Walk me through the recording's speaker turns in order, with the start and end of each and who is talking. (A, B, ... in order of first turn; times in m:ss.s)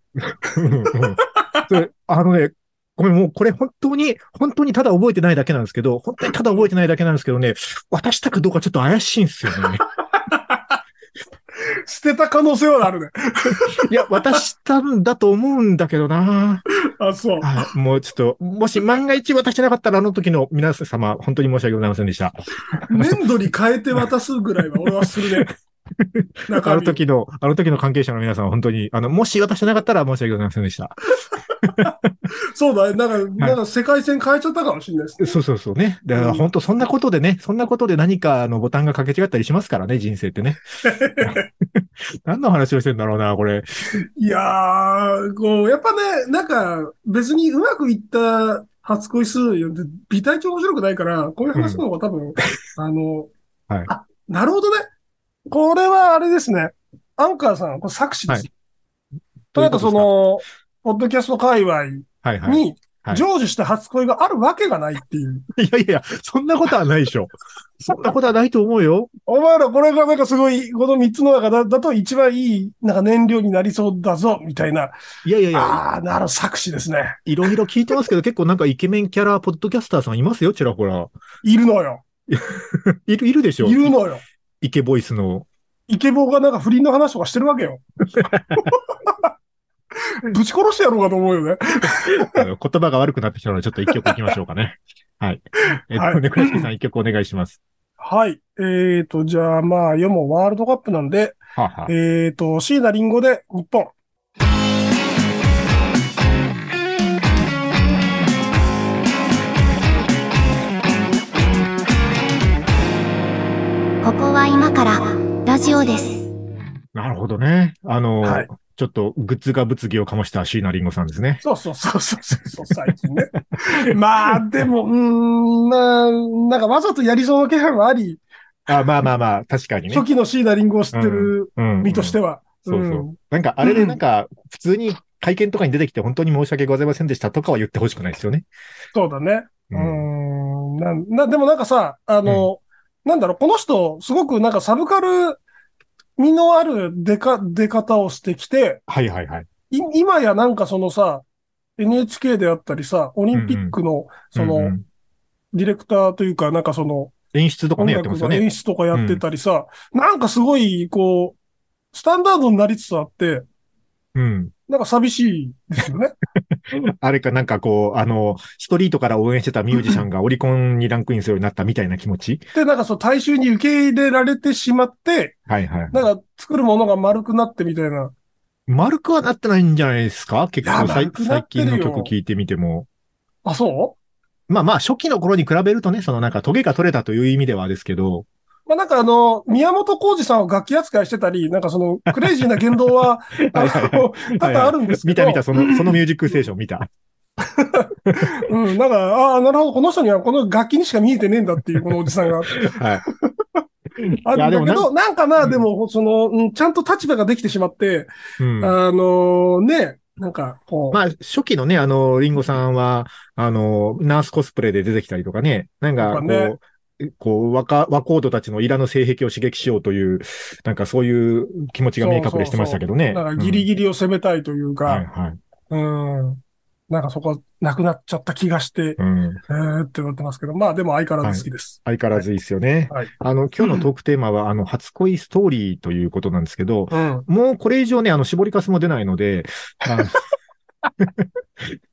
0:00.3-0:09.8 A
0:10.1-0:10.8 B
0:11.8-0:14.4 B
0:13.8-0:16.6 A
0:17.0-0:17.5 B
0:17.4-0:23.2 A
0:22.9-0:25.5 B
0:24.8-0:31.0 A
0:26.5-0:27.0 B
0:31.6-0:32.1 A
0:31.7-0:31.9 B
0:32.5-0:35.4 B
0:35.2-0:40.6 A
0:36.1-0:36.4 B
0:40.8-0:41.4 B
0:41.2-0:43.7 A
0:44.0-0:53.3 B
0:51.5-0:51.8 A
0:53.9-0:54.9 B
0:55.5-0:58.5 B
0:59.5-1:00.1 A
0:59.6-1:05.4 B
1:02.2-1:03.2 A
1:05.5-1:09.1 A
1:09.3-1:15.0 B
1:15.2-1:15.8 A
1:15.5-1:17.2 B
1:17.2-1:21.1 A
1:21.4-1:22.0 B
1:22.3-1:23.9 A
1:23.6-1:24.2 B
1:24.6-1:25.5 A
1:25.9-1:27.8 B
1:28.2-1:28.7 A
1:28.6-1:29.3 B
1:30.0-1:32.4 B
1:31.8-1:37.6 A
1:35.9-1:36.6 B
1:38.0-1:43.9 B
1:41.6-1:41.9 A
1:54.0-1:56.3 C
1:56.9-2:01.4 A
1:58.2-1:58.5 B
2:01.4-2:08.2 B
2:08.7-2:10.0 A
2:09.9-2:14.0 B
2:10.9-2:18.4 A
2:18.9-2:25.4 B
2:19.7-2:20.0 A
2:26.2-2:28.8 B
2:28.9-2:29.5 A
2:29.7-2:31.2 B
2:31.8-2:34.7 B
2:33.3-2:33.8 A
2:34.3-2:34.8 A
2:35.5-2:37.1 B
2:37.3-2:39.2 A
2:37.8-2:41.4 B
2:41.9-2:43.4 B
2:44.1-2:44.5 A
2:44.7-2:46.1 B
2:46.5-2:52.4 A
2:52.5-2:55.4 B
2:55.5-2:56.0 A
2:55.9-2:58.1 B
2:58.7-3:02.9 A
3:00.6-3:02.1 B
3:03.4-3:04.0 B
3:04.5-3:08.3 A
3:08.7-3:16.0 B
3:13.4-3:16.9 A
3:17.4-3:23.6 B
3:22.5-3:23.0 A
3:24.0-3:24.9 A
3:24.2-3:31.0 B
3:28.4-3:28.8 A
3:30.9-3:43.6 A
3:36.0-3:36.5 B
3:42.0-3:45.0 B
3:44.8-3:45.4 A
3:45.7-3:52.2 B
3:49.0-3:49.4 A
3:51.2-4:00.2 A
3:56.9-3:57.3 B
4:01.0-4:01.8 A